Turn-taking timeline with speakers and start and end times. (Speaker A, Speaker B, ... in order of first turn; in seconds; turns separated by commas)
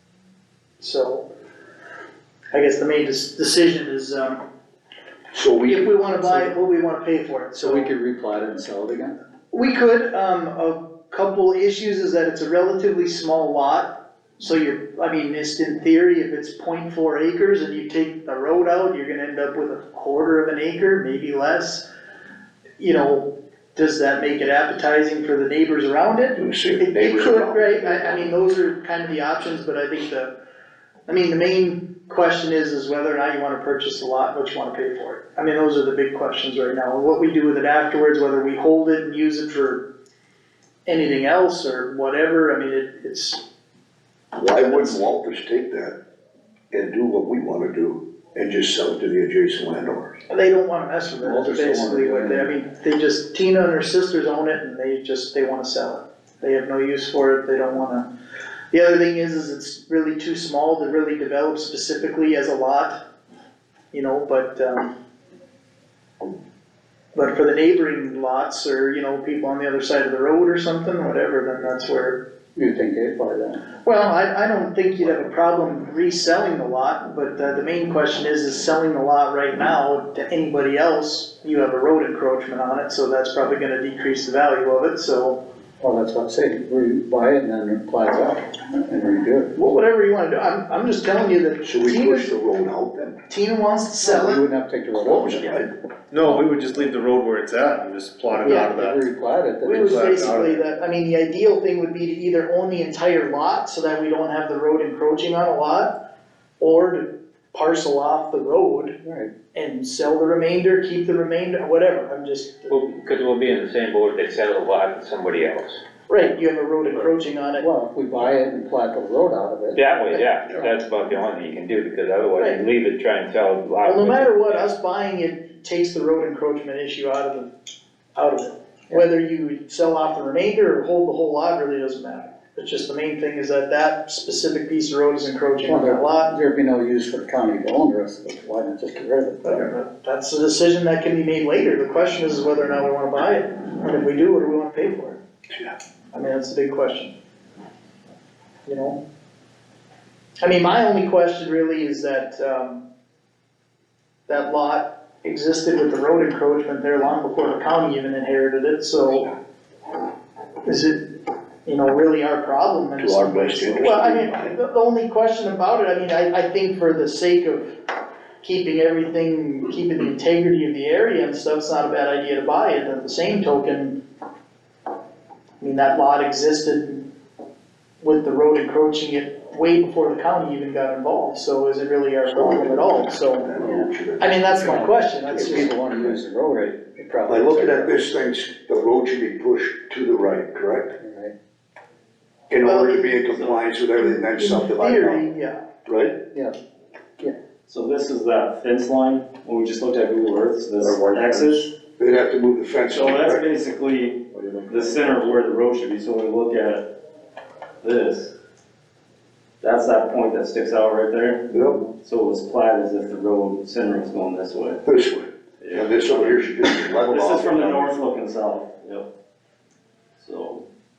Speaker A: 0.8-1.3, Speaker A: 2.5-4.4, Speaker B: 5.3-6.0, Speaker A: 5.7-7.9, Speaker C: 7.6-9.1, Speaker A: 9.5-21.9, Speaker A: 22.8-30.3, Speaker B: 26.4-28.3, Speaker A: 31.1-39.9, Speaker A: 40.9-43.4, Speaker B: 44.3-46.0, Speaker A: 44.5-45.0, Speaker B: 46.7-50.2, Speaker A: 50.3-58.1, Speaker C: 51.2-52.5, Speaker A: 58.7-63.0, Speaker A: 63.9-64.9, Speaker A: 67.1-72.2, Speaker C: 72.5-73.6, Speaker A: 73.8-85.4, Speaker C: 85.8-89.5, Speaker A: 89.5-92.3, Speaker B: 91.6-93.2, Speaker A: 93.3-94.4, Speaker C: 94.0-95.6, Speaker B: 94.9-95.7, Speaker D: 96.1-99.0, Speaker A: 98.4-98.7, Speaker C: 98.4-100.2, Speaker A: 99.6-106.0, Speaker D: 99.8-100.5, Speaker A: 106.6-109.0, Speaker C: 109.0-109.3, Speaker A: 109.5-112.8, Speaker E: 112.7-115.8, Speaker A: 116.1-117.7, Speaker C: 117.6-120.7, Speaker E: 119.8-124.4, Speaker A: 122.4-122.6, Speaker A: 123.8-127.5, Speaker A: 128.2-136.3, Speaker C: 135.7-139.7, Speaker A: 139.4-145.2, Speaker A: 146.1-147.1, Speaker A: 148.7-149.0, Speaker A: 150.4-152.8, Speaker A: 154.3-159.3, Speaker A: 160.7-161.1, Speaker A: 161.7-167.7, Speaker B: 163.0-164.6, Speaker A: 168.4-174.0, Speaker A: 175.6-177.1, Speaker A: 178.0-183.5, Speaker B: 182.3-186.2, Speaker C: 183.6-183.9, Speaker A: 184.2-185.7, Speaker C: 185.3-188.0, Speaker B: 187.3-190.9, Speaker C: 191.0-191.3, Speaker B: 192.5-195.3, Speaker A: 192.6-193.2, Speaker F: 193.3-193.6, Speaker A: 194.0-195.6, Speaker B: 195.8-196.2, Speaker F: 197.7-201.7, Speaker B: 201.8-203.5, Speaker F: 202.9-206.9, Speaker F: 207.8-208.3, Speaker F: 209.6-214.8, Speaker B: 211.5-211.9, Speaker B: 214.8-217.9, Speaker F: 215.6-219.1, Speaker F: 220.2-220.7